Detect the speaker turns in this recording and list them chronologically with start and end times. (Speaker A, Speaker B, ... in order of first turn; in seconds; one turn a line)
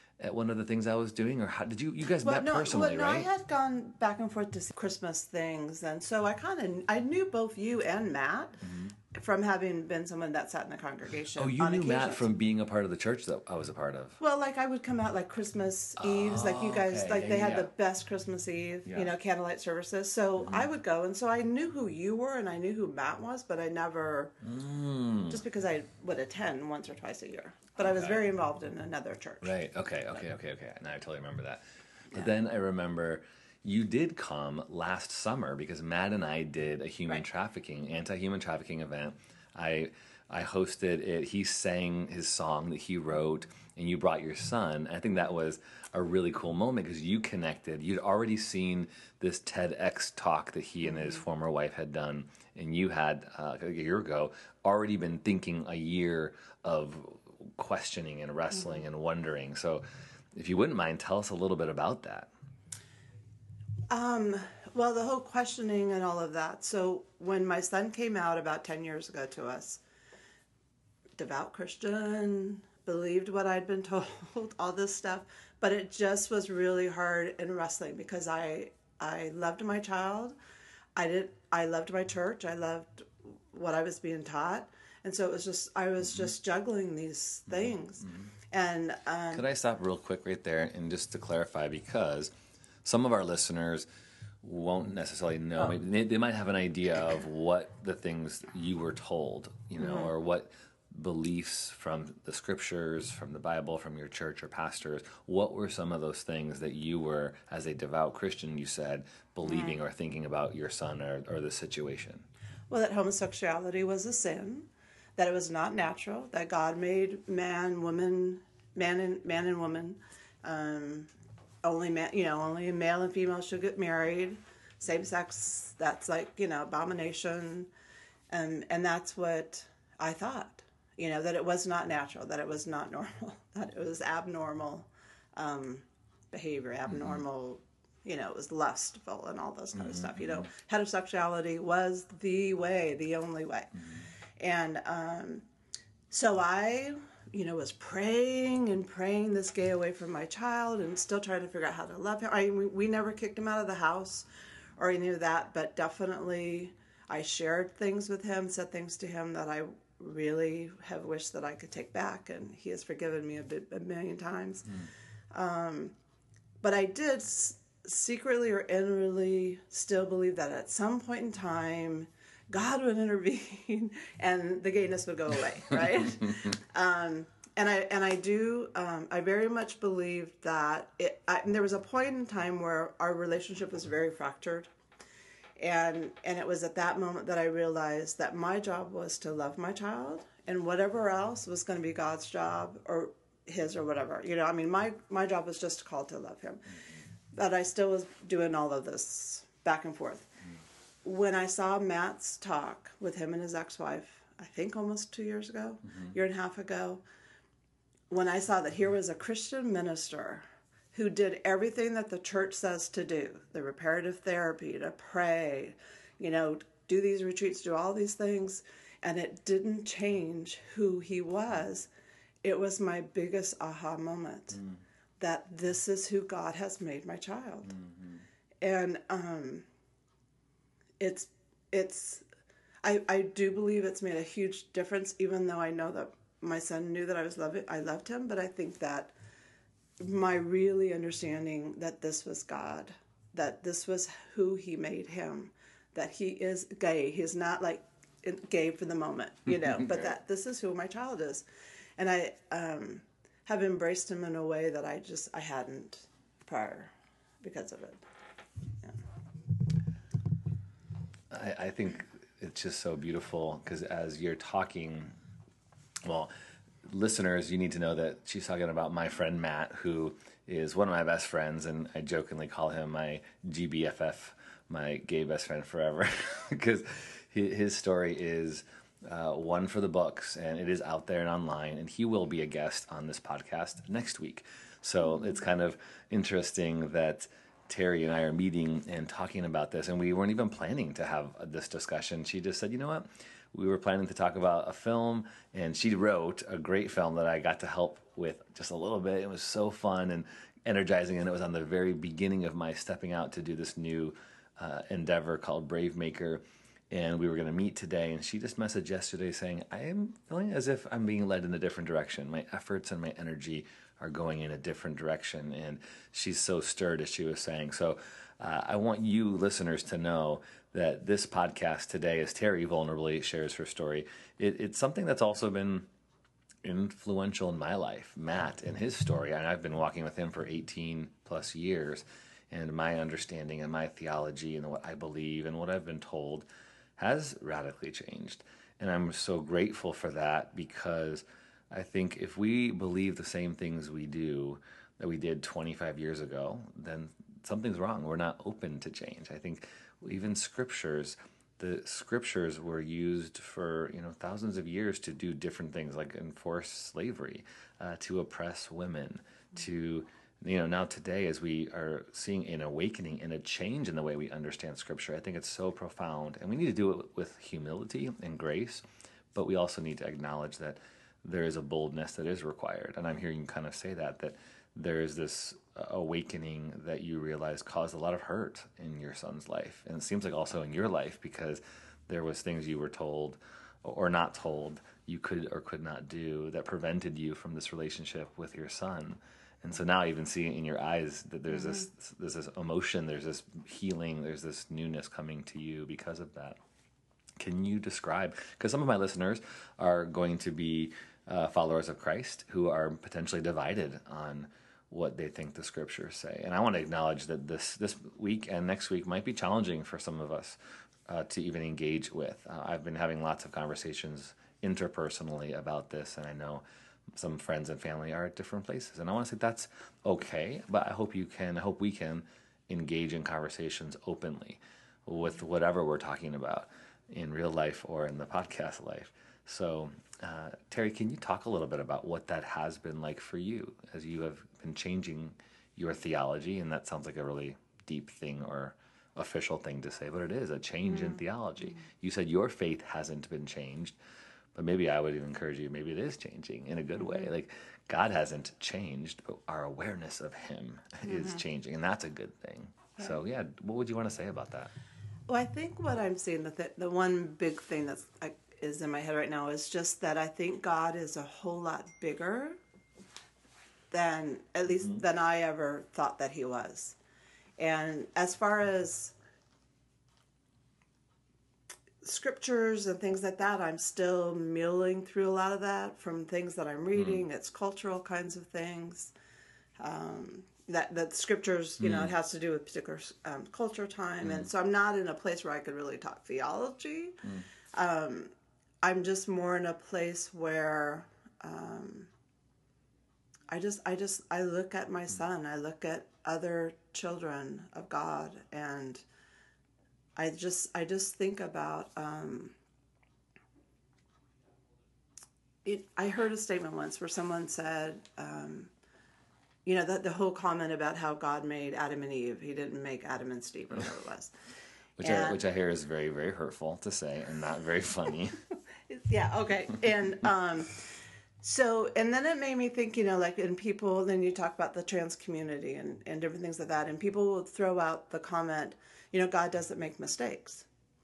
Speaker A: 0.2-3.3
Speaker B: 2.2-8.6
Speaker A: 8.6-8.9
Speaker B: 9.1-12.2
Speaker A: 11.3-14.2
Speaker B: 14.2-24.3
Speaker A: 16.0-17.7
Speaker A: 18.9-19.1
Speaker A: 24.4-25.4
Speaker B: 25.3-29.5
Speaker A: 27.8-28.2
Speaker A: 29.4-62.3
Speaker B: 63.9-69.8
Speaker B: 71.2-80.3
Speaker B: 81.0-89.4
Speaker A: 87.5-88.3
Speaker A: 89.3-92.3
Speaker A: 92.8-93.9
Speaker A: 94.4-112.2
Speaker B: 99.8-100.1
Speaker B: 109.4-109.8
Speaker B: 112.7-121.1
Speaker B: 121.6-127.7
Speaker B: 128.3-143.7
Speaker A: 136.9-137.2
Speaker A: 139.8-140.5
Speaker B: 144.4-145.4
Speaker B: 146.1-154.2
Speaker B: 154.8-164.7
Speaker B: 165.3-165.9
Speaker B: 166.6-184.7
Speaker B: 185.6-196.7
Speaker B: 197.3-200.3
Speaker B: 201.0-207.0
Speaker B: 208.1-221.9
Speaker B: 222.4-224.6
Speaker A: 224.5-224.8
Speaker B: 225.2-227.7
Speaker A: 227.6-228.2
Speaker B: 228.6-229.7
Speaker B: 231.0-232.2
Speaker B: 232.8-239.1
Speaker B: 240.0-251.4
Speaker B: 252.0-258.0
Speaker A: 261.3-265.1
Speaker A: 266.0-266.3
Speaker A: 266.8-325.9
Speaker A: 326.6-396.6
Speaker A: 397.4-416.6
Speaker A: 417.1-444.0
Speaker A: 444.5-454.7
Speaker B: 451.1-451.4
Speaker B: 455.3-462.6
Speaker B: 463.9-466.9
Speaker B: 467.6-469.1
Speaker B: 472.0-479.1
Speaker A: 476.9-477.2
Speaker B: 479.8-487.2
Speaker A: 481.8-482.1
Speaker B: 487.7-488.3
Speaker B: 488.8-492.1
Speaker B: 493.5-499.0
Speaker B: 500.1-502.5
Speaker B: 505.6-508.7
Speaker B: 509.6-514.3
Speaker A: 515.0-518.4
Speaker B: 515.0-515.4
Speaker B: 518.9-520.9
Speaker B: 521.4-530.6